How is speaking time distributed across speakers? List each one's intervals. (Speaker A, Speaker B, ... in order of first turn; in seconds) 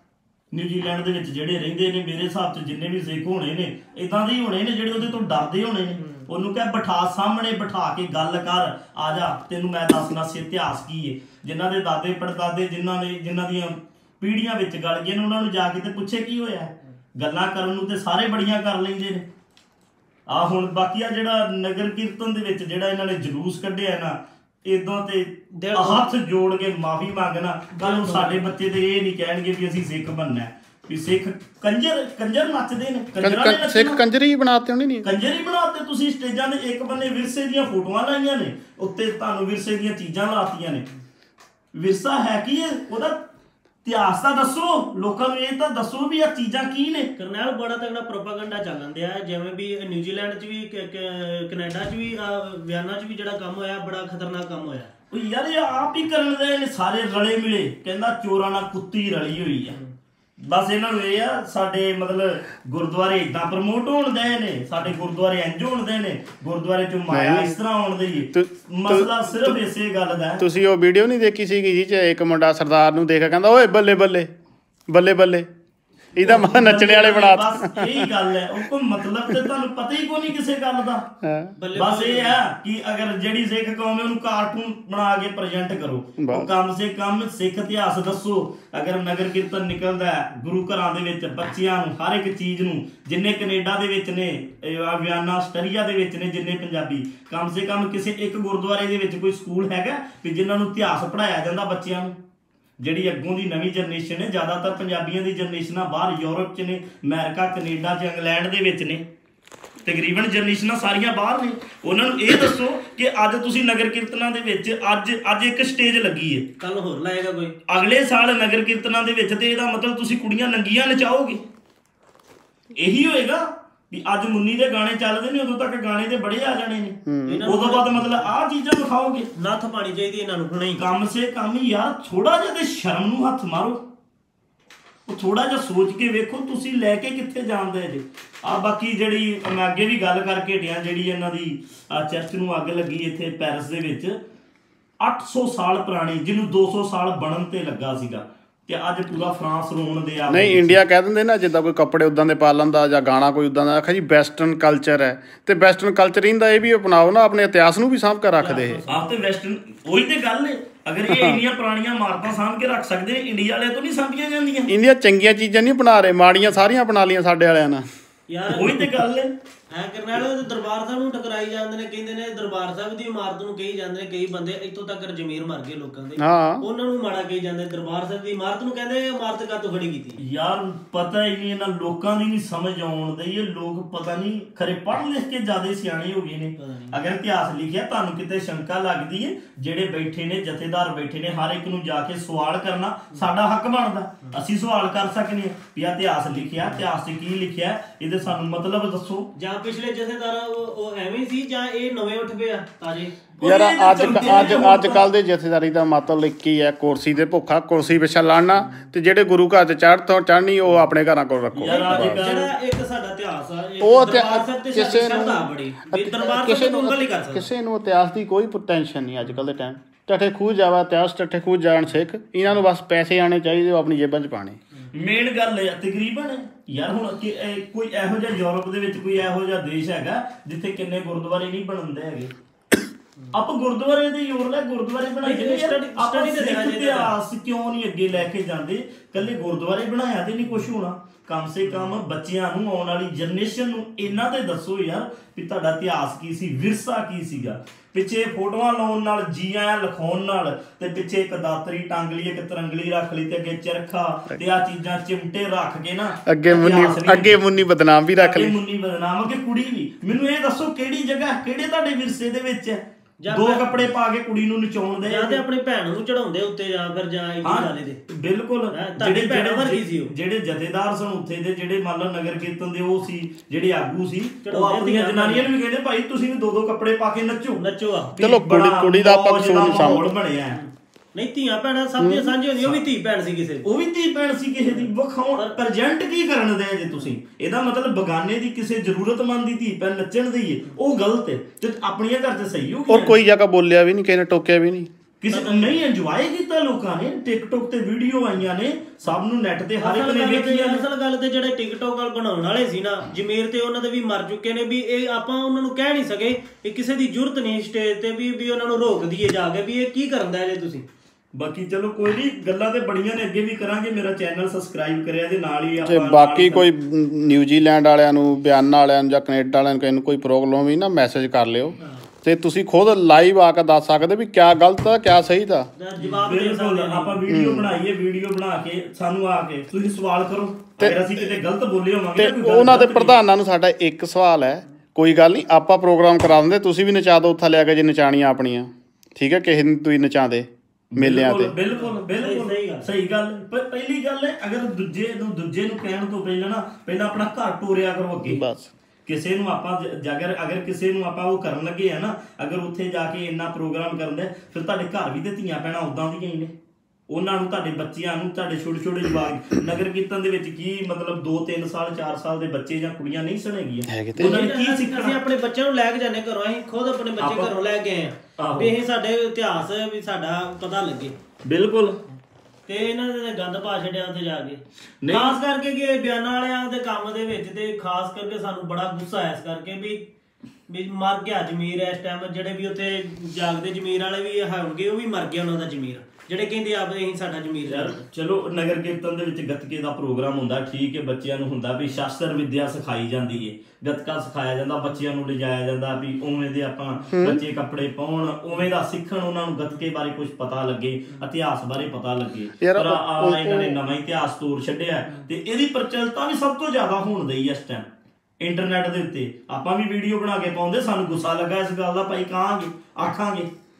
Speaker A: 0.5-19.2, 20.3-34.0, 35.0-40.8, 41.7-43.2, 43.8-47.1, 55.1-59.8, 60.4-70.4, 76.2-81.1, 81.7-102.1, 102.8-109.0, 109.8-116.5, 117.7-121.4, 122.7-129.3, 130.7-133.8, 135.1-144.1, 145.0-150.8, 158.9-164.7, 168.5-169.3, 180.2-199.3, 203.4-205.1, 211.6-212.5, 224.9-232.3, 233.3-257.4, 258.2-265.4, 267.4-277.6, 278.1-280.6, 283.6-293.2, 295.2-300.8, 311.3-316.7, 326.0-333.1, 340.9-348.4, 349.1-356.5, 357.1-365.2, 367.2-367.5, 368.4-368.7, 371.4-372.0, 375.0-375.4, 387.7-407.8, 408.4-413.5
Speaker B: 25.6-26.1, 27.7-28.4, 47.2-54.9, 81.6-82.4, 116.6-117.5, 127.2-128.3, 129.3-130.8, 158.4-159.3, 168.3-168.7, 169.7-180.2, 186.6-187.0, 199.3-203.2, 211.6-217.5, 235.2-237.1, 263.2-263.6, 265.0-268.0, 268.7-270.1, 274.4-275.5, 277.6-278.2, 280.5-283.6, 284.6-285.6, 295.3-295.8, 299.8-310.8, 321.8-322.0, 325.8-327.2, 341.7-342.9, 364.1-371.1, 372.7-380.1, 380.7-388.0
Speaker C: 33.2-35.1, 67.1-67.6, 68.3-69.6, 70.4-74.3, 74.9-75.5, 76.2-78.1, 81.2-81.5, 86.2-86.5, 127.0-127.5, 150.3-158.8, 161.1-161.4, 164.7-167.8, 168.7-168.9, 176.2-176.6, 203.4-212.2, 213.8-224.6, 256.2-258.5, 278.2-280.1, 282.0-282.3, 292.9-294.9, 315.8-325.7, 327.3-327.7, 332.1-341.5, 348.3-348.7, 363.9-364.4, 397.1-397.4, 402.6-403.8